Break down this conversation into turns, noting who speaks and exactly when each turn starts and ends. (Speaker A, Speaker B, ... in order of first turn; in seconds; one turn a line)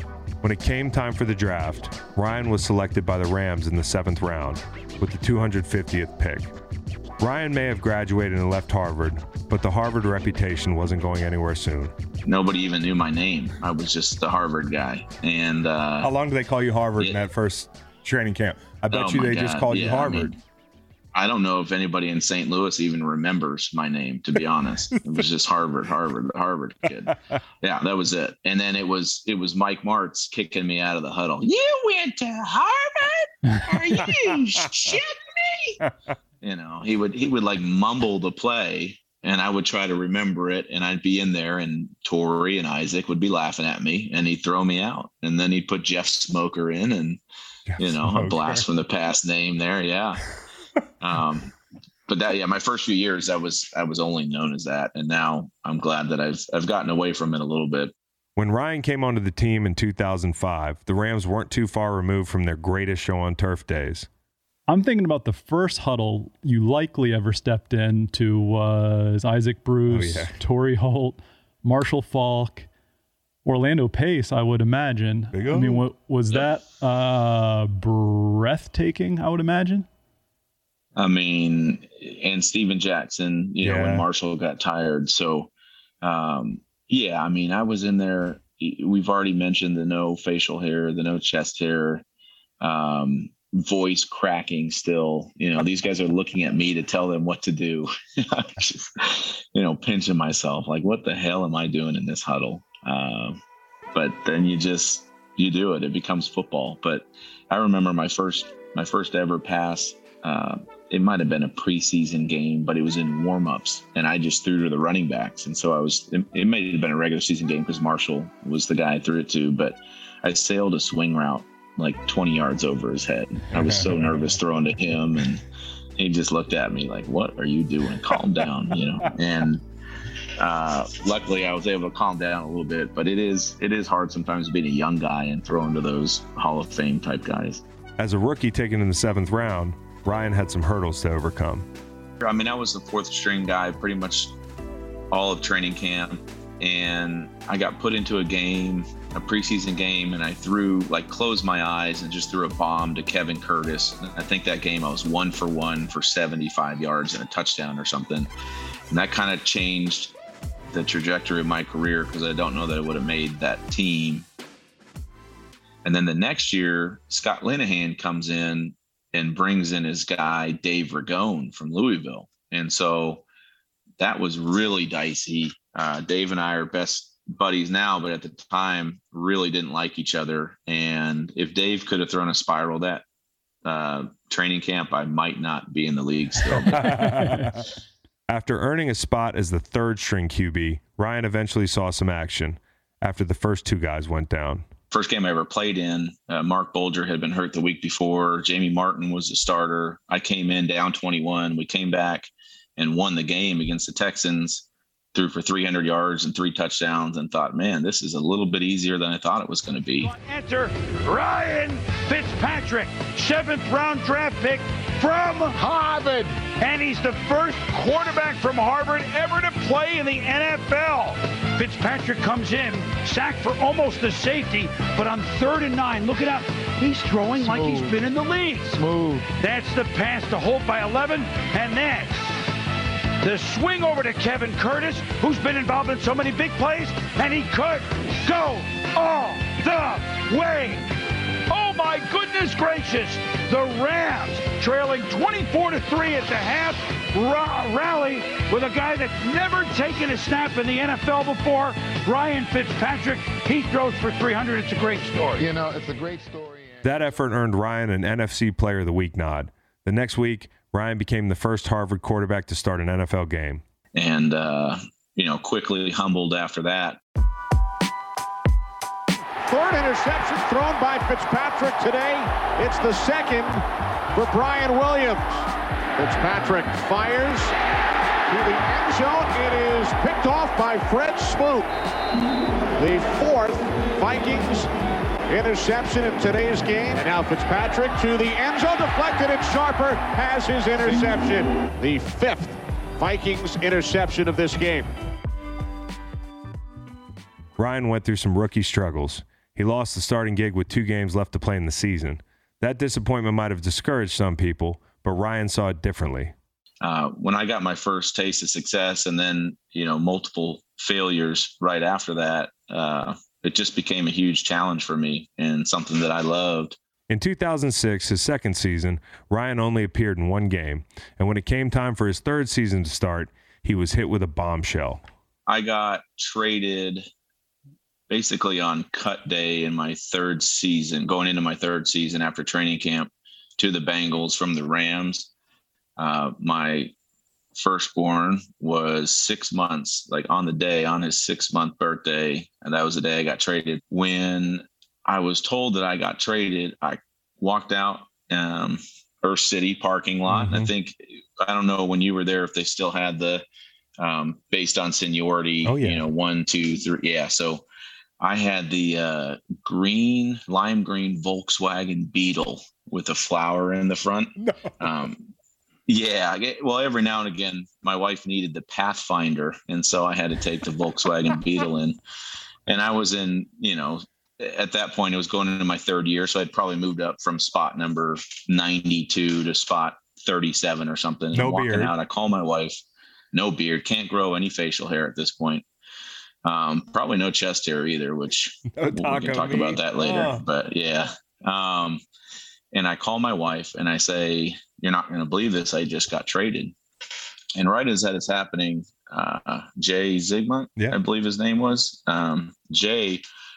Speaker A: 0.4-6.5
Speaker A: 7.2-11.9
Speaker B: 12.2-16.1
Speaker A: 16.0-20.4
Speaker B: 18.9-20.3
Speaker B: 21.1-35.8
Speaker B: 36.4-47.2
Speaker A: 47.7-48.6
Speaker B: 47.8-50.2
Speaker B: 51.0-51.5
Speaker B: 52.1-57.9
Speaker A: 58.4-64.1
Speaker C: 64.7-72.7
Speaker A: 69.9-70.3
Speaker C: 73.4-79.9
Speaker A: 75.3-75.8
Speaker B: 81.0-85.5
Speaker A: 83.6-84.0
Speaker B: 86.0-92.0
Speaker B: 92.6-103.4
Speaker B: 103.9-125.4
Speaker B: 126.0-129.6
Speaker B: 130.4-137.6
Speaker A: 138.0-141.7
Speaker B: 142.2-144.3
Speaker B: 145.1-158.3
Speaker B: 158.9-160.1
Speaker B: 160.7-164.2
Speaker B: 165.8-173.2
Speaker B: 174.0-183.0
Speaker B: 183.6-187.1
Speaker A: 186.7-187.6
Speaker A: 188.3-194.7
Speaker B: 194.9-210.1
Speaker D: 210.0-215.6
Speaker E: 215.6-216.4
Speaker D: 216.6-232.3
Speaker E: 227.4-228.0
Speaker E: 228.8-229.3
Speaker D: 233.2-240.9
Speaker D: 241.5-255.5
Speaker E: 255.4-257.0
Speaker A: 256.8-263.6
Speaker B: 263.9-267.0
Speaker F: 269.4-273.6
Speaker F: 274.1-277.5
Speaker F: 278.3-281.7
Speaker F: 282.8-284.7
Speaker F: 285.3-294.9
Speaker A: 297.6-306.3
Speaker B: 306.8-316.8
Speaker A: 317.1-325.0
Speaker B: 325.5-327.0
Speaker B: 328.1-335.3
Speaker B: 336.0-336.9
Speaker B: 337.6-353.4
Speaker A: 350.3-350.7
Speaker B: 354.0-357.6
Speaker A: 355.6-356.0
Speaker B: 358.2-365.3
Speaker A: 364.4-364.7
Speaker B: 365.9-372.0
Speaker B: 372.7-382.8
Speaker A: 381.3-381.9
Speaker B: 383.3-385.6
Speaker B: 386.4-392.0
Speaker A: 388.8-390.4
Speaker B: 392.7-396.7
Speaker B: 397.5-403.2